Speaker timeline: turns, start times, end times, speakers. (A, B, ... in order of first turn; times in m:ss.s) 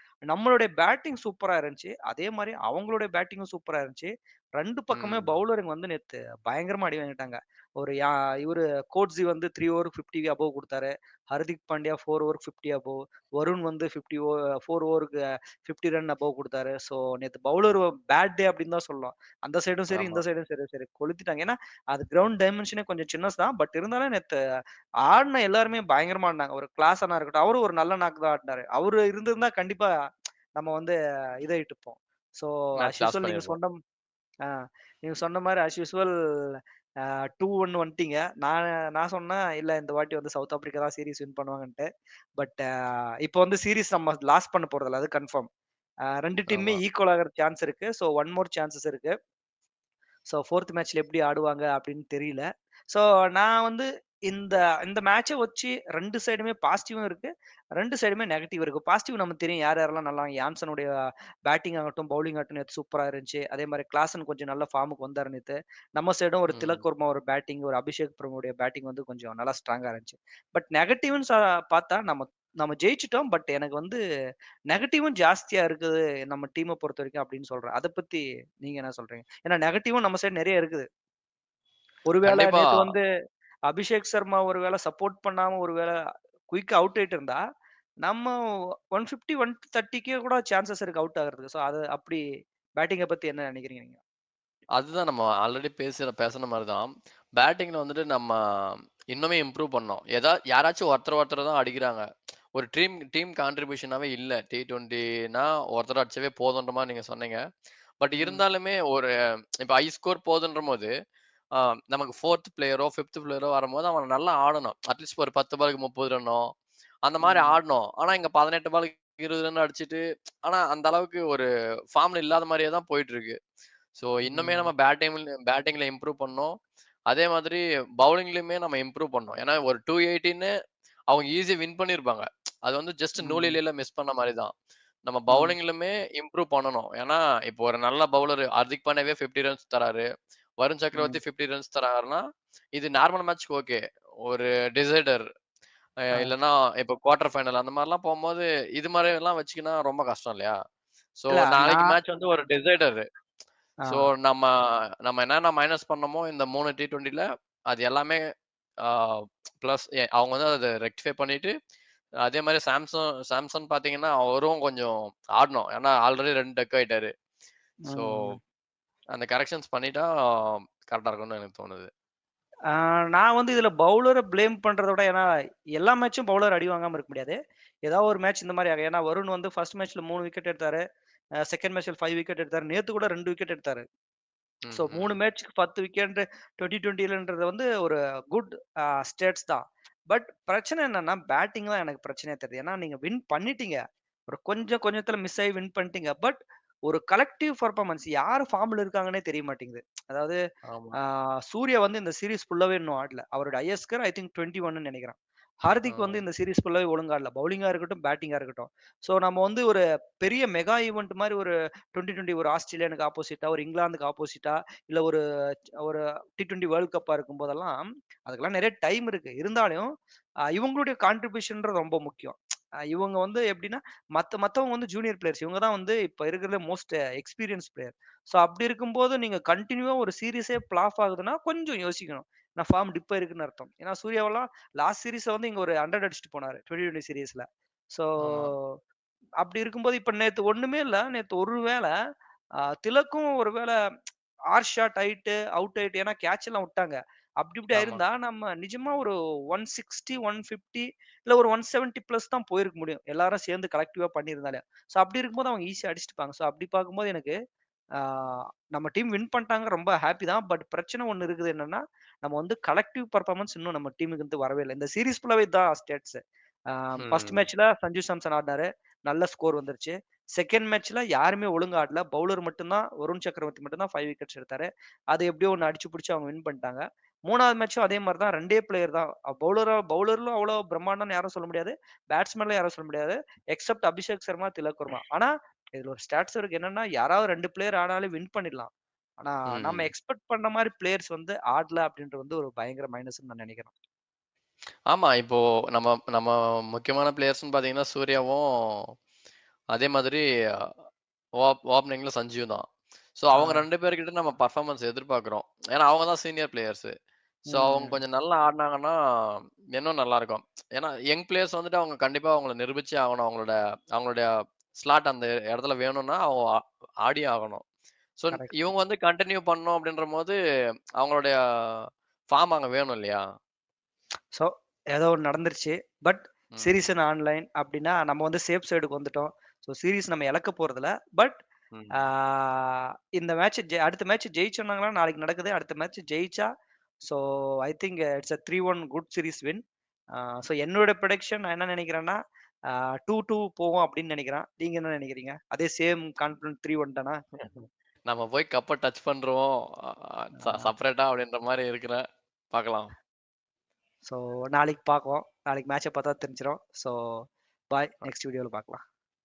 0:00.3-0:24.4 A
0:04.9-0:05.4 B
0:19.9-0:20.2 B
0:25.1-0:29.9 A
0:30.6-0:33.8 A
0:32.8-0:33.6 B
0:35.0-0:36.6 A
0:37.4-0:41.9 A
0:42.4-0:42.6 A
0:43.2-0:45.5 A
0:46.2-0:49.1 A
0:46.5-0:46.8 B
0:50.3-1:00.9 A
1:01.5-1:14.0 A
1:06.5-1:06.8 B
1:14.7-1:20.9 A
1:22.1-1:23.0 A
1:22.2-1:22.9 B
1:23.7-1:25.9 A
1:26.5-1:27.4 A
1:28.0-1:28.3 A
1:28.9-1:32.2 A
1:32.8-1:34.0 A
1:34.8-1:36.9 B
1:37.4-1:38.4 B
1:39.1-1:42.0 B
1:42.6-1:47.4 B
1:48.0-1:49.1 B
1:49.6-1:50.9 B
1:51.6-1:56.4 B
1:57.1-2:03.4 B
1:57.2-1:57.5 A
2:04.0-2:06.5 B
2:04.2-2:04.7 A
2:07.1-2:10.5 B
2:11.1-2:14.5 B
2:13.2-2:13.6 A
2:15.0-2:20.0 B
2:20.6-2:22.2 B
2:22.8-2:25.2 B
2:26.2-2:30.6 B
2:31.2-2:33.0 B
2:31.3-2:32.0 A
2:33.9-2:34.5 B
2:35.0-2:38.2 B
2:38.8-2:41.5 B
2:42.2-2:47.1 B
2:47.9-2:48.4 A
2:47.9-2:48.4 B
2:49.1-2:51.9 B
2:52.7-2:55.2 A
2:55.8-3:00.8 A
3:01.5-3:03.8 A
3:04.7-3:05.2 B
3:04.7-3:08.5 A
3:09.1-3:16.4 A
3:16.9-3:20.4 A
3:20.7-3:21.0 B
3:21.5-3:35.2 A
3:25.9-3:26.2 B
3:35.8-3:39.9 A
3:40.6-3:42.4 A
3:42.9-3:58.6 A
3:58.2-3:58.5 B
3:59.4-4:01.9 A
4:02.8-4:03.7 A
4:04.5-4:17.3 A
4:07.7-4:08.0 B
4:18.0-4:26.2 A
4:26.7-4:48.7 A
4:27.0-4:27.5 B
4:49.2-4:53.7 A
4:49.5-4:49.9 B
4:54.9-4:58.8 B
4:59.7-5:00.7 B
5:01.4-5:02.6 B
5:03.2-5:06.9 B
5:03.4-5:03.6 A
5:07.5-5:08.0 A
5:07.5-5:14.2 B
5:14.8-5:16.4 B
5:17.0-5:17.6 B
5:18.2-5:20.4 B
5:18.3-5:18.6 A
5:21.0-5:23.2 B
5:24.3-5:31.4 A
5:26.6-5:26.8 B
5:31.7-5:32.0 B
5:32.0-5:36.5 A
5:37.1-5:39.6 A
5:40.2-5:42.2 A
5:43.0-5:47.2 A
5:47.4-5:52.9 B
5:50.4-5:50.7 A
5:54.1-5:56.9 A
5:57.7-5:58.8 A